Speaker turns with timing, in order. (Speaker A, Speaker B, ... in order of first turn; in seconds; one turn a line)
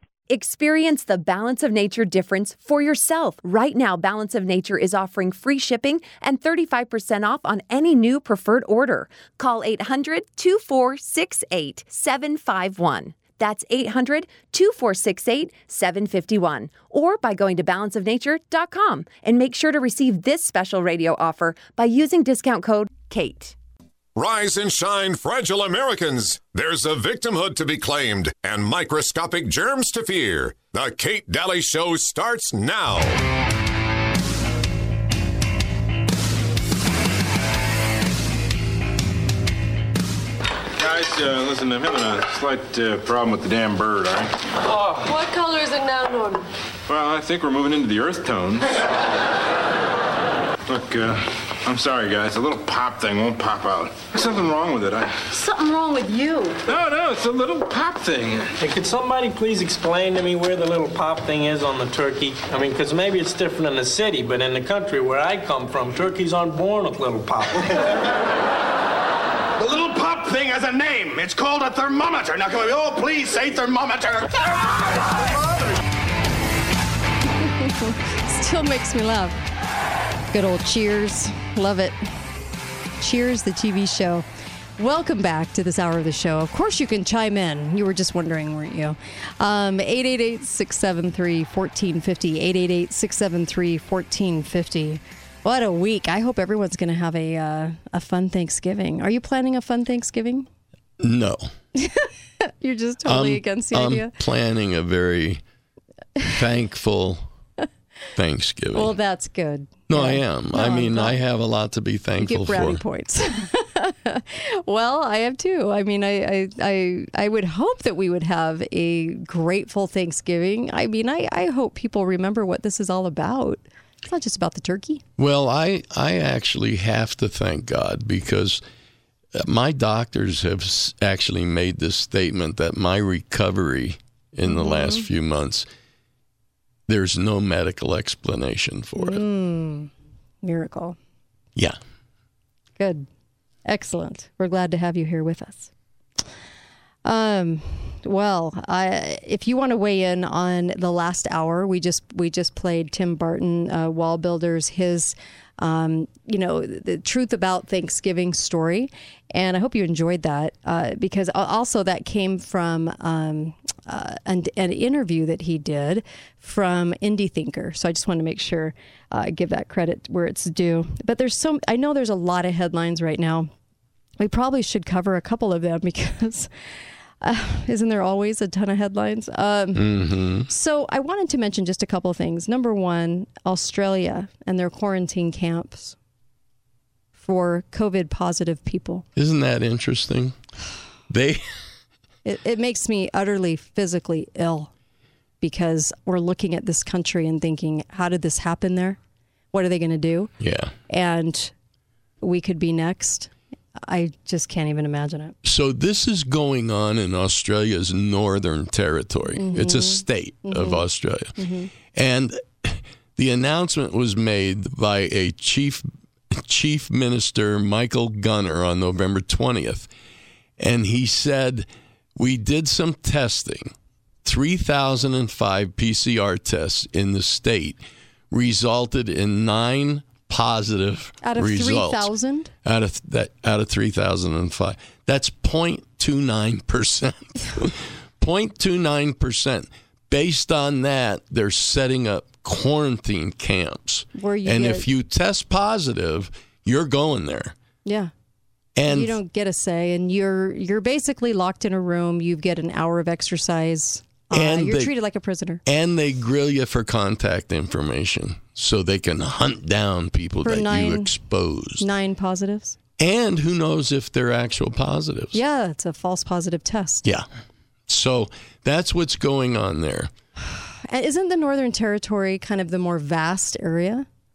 Speaker A: 0.3-23.6
Speaker B: 24.1-33.2
Speaker C: 40.8-45.0
Speaker D: 45.0-46.4
Speaker C: 46.9-48.7
Speaker C: 50.7-55.3
Speaker D: 55.3-56.6
Speaker C: 56.6-58.5
Speaker E: 58.6-67.8
Speaker F: 69.6-75.3
Speaker G: 77.4-79.4
Speaker G: 80.3-82.1
Speaker G: 83.0-84.2
Speaker G: 84.8-100.5
Speaker H: 101.0-101.5
Speaker G: 101.7-104.1
Speaker H: 103.0-105.4
Speaker H: 106.3-107.3
Speaker H: 108.2-108.9
Speaker G: 108.7-111.2
Speaker H: 109.9-112.8
Speaker G: 112.2-125.0
Speaker H: 125.2-128.6
Speaker H: 129.3-135.7
Speaker G: 134.4-135.1
Speaker H: 136.9-139.2
Speaker G: 139.0-139.9
Speaker G: 140.4-141.0
Speaker G: 142.8-143.1
Speaker G: 143.7-145.7
Speaker G: 147.0-173.5
Speaker G: 174.2-176.5
Speaker G: 177.2-180.0
Speaker H: 179.7-180.5
Speaker G: 180.5-185.9
Speaker G: 187.2-189.0
Speaker H: 189.2-190.4
Speaker H: 191.1-191.4
Speaker G: 192.2-194.7
Speaker G: 195.4-199.0
Speaker G: 199.5-200.3
Speaker H: 200.4-200.7
Speaker G: 200.9-201.5
Speaker G: 202.2-203.3
Speaker G: 203.8-205.3
Speaker H: 205.4-211.3
Speaker G: 209.3-210.8
Speaker G: 211.4-211.7
Speaker H: 211.9-219.9
Speaker H: 220.6-223.7
Speaker H: 224.2-227.8
Speaker H: 228.3-232.1
Speaker G: 231.2-232.5
Speaker H: 232.6-247.5
Speaker G: 244.2-244.8
Speaker G: 247.8-248.1
Speaker H: 248.8-249.2
Speaker G: 248.9-255.6
Speaker H: 254.3-254.9
Speaker H: 255.7-261.9
Speaker G: 260.4-261.1
Speaker G: 261.8-262.8
Speaker H: 263.0-265.4
Speaker G: 265.3-267.0
Speaker H: 267.9-270.1
Speaker G: 270.4-274.1